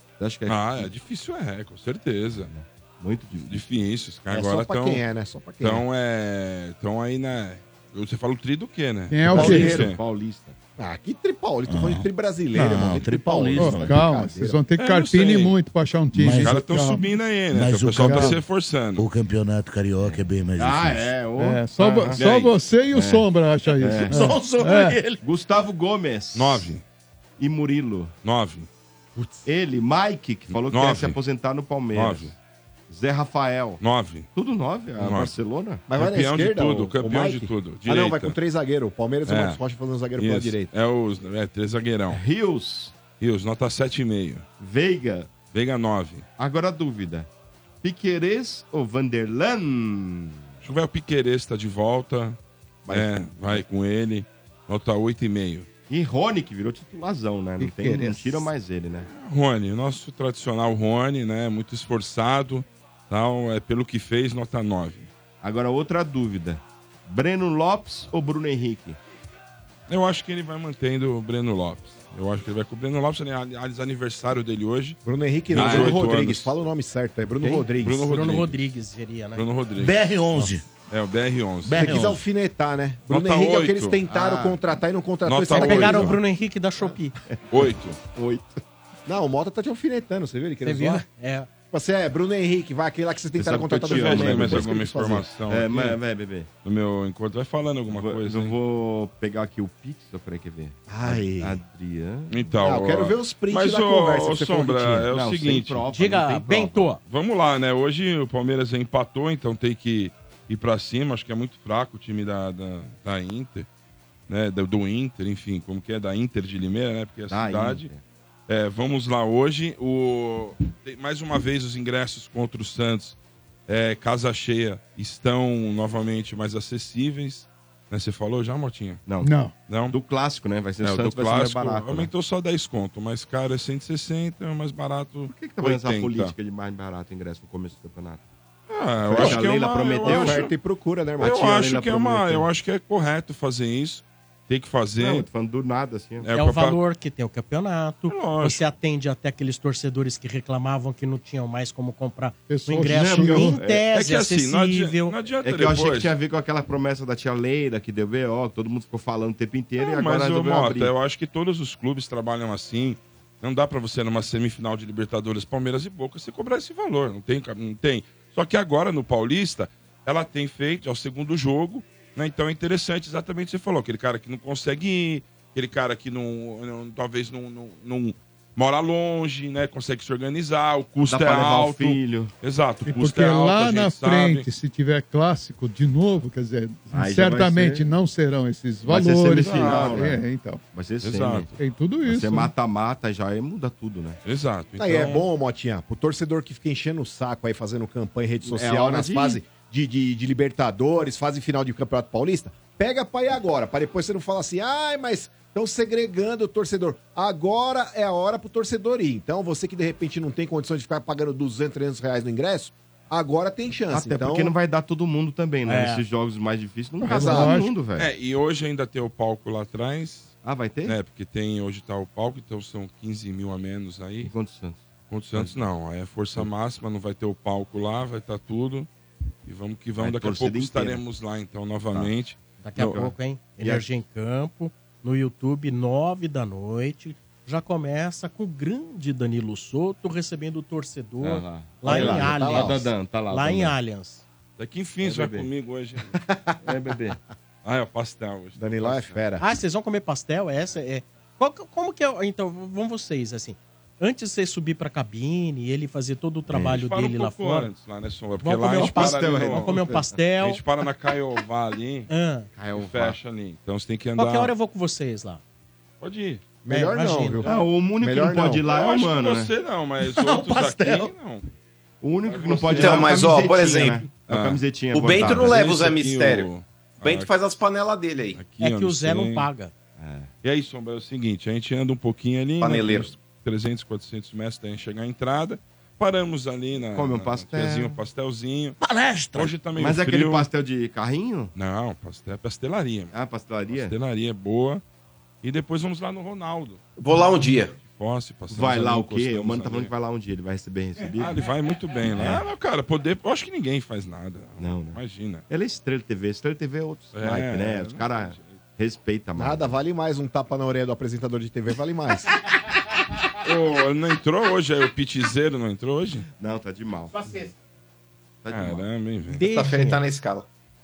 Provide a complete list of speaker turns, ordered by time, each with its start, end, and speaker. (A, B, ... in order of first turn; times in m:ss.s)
0:00.2-0:00.9 A
0:00.5-0:02.5 B
0:02.4-0:03.6 A
0:03.4-0:05.0 B
0:04.3-0:05.9 C
0:05.6-0:10.0 B
0:09.1-0:09.8 D
0:09.3-0:10.6 A
0:09.3-0:09.9 C
0:10.8-0:14.6 C
0:11.7-0:14.0 E
0:13.6-0:17.1 D
0:14.8-0:15.6 B
0:16.1-0:21.1 E
0:16.4-0:19.0 B
0:18.1-0:18.4 D
0:20.0-0:22.4 A
0:21.4-0:25.0 D
0:22.2-0:22.5 B
0:22.9-0:24.2 A
0:24.0-0:25.2 E
0:25.2-0:26.7 A
0:26.3-0:26.8 B
0:27.4-0:28.1 A
0:28.2-0:28.7 B
0:29.2-0:29.4 C
0:29.4-0:32.4 A
0:30.5-0:31.2 B
0:31.9-0:32.4 B
0:32.9-0:35.8 A
0:33.8-0:34.3 B
0:35.0-0:35.4 B
0:35.9-0:40.7 C
0:35.9-0:38.4 B
0:39.2-0:39.6 B
0:40.2-0:42.2 B
0:42.1-0:43.0 A
0:43.1-0:44.5 B
0:44.6-0:45.4 A
0:45.4-0:46.3 B
0:46.4-0:47.3 A
0:47.8-0:50.5 A
0:50.6-0:52.4 B
0:52.9-0:53.6 C
0:52.9-0:55.7 B
0:55.9-0:59.1 A
0:57.6-0:58.5 D
0:59.0-1:05.1 B
1:05.4-1:09.0 A
1:09.9-1:15.0 B
1:15.0-1:18.1 C
1:15.5-1:16.5 B
1:15.5-1:16.0 A
1:17.8-1:18.6 B
1:18.0-1:19.5 F
1:19.4-1:20.0 B
1:19.8-1:20.7 E
1:20.8-1:21.9 B
1:21.6-1:22.2 E
1:21.8-1:26.2 C
1:23.1-1:24.0 B
1:24.1-1:24.6 A
1:25.2-1:26.2 B
1:25.5-1:27.2 F
1:27.5-1:28.0 B
1:28.0-1:28.6 A
1:29.1-1:31.0 C
1:30.6-1:31.5 F
1:31.7-1:35.3 C
1:33.4-1:34.8 A
1:33.8-1:36.0 B
1:35.5-1:36.5 A
1:36.6-1:38.6 B
1:37.9-1:42.6 A
1:40.9-1:41.6 C
1:42.3-1:45.9 B
1:42.6-1:45.1 C
1:45.1-1:47.0 A
1:45.9-1:47.0 F
1:47.0-1:53.7 B
1:54.3-1:57.9 B
1:57.3-1:58.0 A
1:58.5-2:03.2 B
2:03.7-2:10.0 B
2:09.1-2:09.3 A
2:09.2-2:09.6 D
2:09.9-2:12.1 A
2:10.8-2:16.4 B
2:15.3-2:18.2 A
2:18.7-2:20.5 B
2:19.0-2:20.5 A
2:19.1-2:19.4 C
2:20.0-2:22.5 C
2:21.2-2:25.3 B
2:21.2-2:22.5 A
2:25.0-2:26.3 A
2:26.2-2:26.8 B
2:26.3-2:35.2 F
2:28.1-2:28.6 B
2:32.5-2:33.6 D
2:32.9-2:33.8 A
2:33.9-2:36.1 B
2:35.4-2:40.9 A
2:39.8-3:04.5 B
3:01.0-3:02.3 A
3:02.8-3:10.6 D
3:06.9-3:07.9 A
3:08.8-3:11.5 A
3:09.4-3:10.0 B
3:11.0-3:11.5 B
3:11.6-3:12.5 D
3:12.0-3:14.2 A
3:14.2-3:15.3 B
3:14.8-3:34.5 C
3:18.4-3:19.4 A
3:33.9-3:38.1 A
3:35.7-3:36.0 F
3:37.0-3:37.7 D
3:37.1-3:37.6 C
3:38.0-3:44.3 B
3:40.4-3:41.0 A
3:44.2-3:45.6 A
3:45.1-3:48.9 B
3:49.5-3:53.0 B
3:50.0-3:51.0 A
3:52.6-4:04.2 F
3:52.8-3:53.9 A
4:01.2-4:03.8 A
4:01.8-4:02.9 C
4:04.6-4:06.2 B
4:05.0-4:05.5 A
4:06.2-4:06.6 C
4:06.6-4:07.2 A
4:07.6-4:09.1 B
4:08.6-4:09.5 C
4:09.4-4:17.7 F
4:16.5-4:19.8 B
4:18.4-4:20.6 F
4:18.7-4:20.2 A
4:20.4-4:22.1 B
4:22.1-4:22.5 F
4:22.6-4:23.2 A
4:22.7-4:24.5 B
4:24.2-4:25.4 F
4:26.0-4:26.5 B
4:26.6-4:28.6 C
4:26.7-4:27.4 F
4:27.4-4:29.5 A
4:28.6-4:31.5 B
4:30.0-4:31.1 E
4:32.0-4:35.6 A
4:32.2-4:33.3 B
4:32.7-4:34.1 G
4:34.3-4:37.3 B
4:34.9-4:36.5 G
4:37.0-4:38.4 G
4:38.4-4:39.5 B
4:38.6-4:39.7 F
4:40.0-4:40.3 A
4:40.4-4:48.8 B
4:42.6-4:43.1 G
4:46.9-4:48.0 A
4:48.8-4:49.6 E
4:49.3-4:50.5 B
4:49.8-4:51.5 A
4:51.6-4:53.1 B
4:53.1-4:54.0 A
4:53.7-4:54.8 B
4:55.4-4:56.8 B
4:57.0-4:57.8 G
4:57.8-4:59.9 B
4:58.5-5:01.4 A
5:01.2-5:05.4 B
5:02.0-5:02.4 A
5:04.6-5:09.8 A
5:07.1-5:08.6 B
5:09.4-5:12.3 C
5:13.4-5:16.3 B
5:16.4-5:17.2 A
5:18.4-5:18.9 A
5:18.5-5:19.5 B
5:19.3-5:20.0 F
5:19.5-5:20.5 G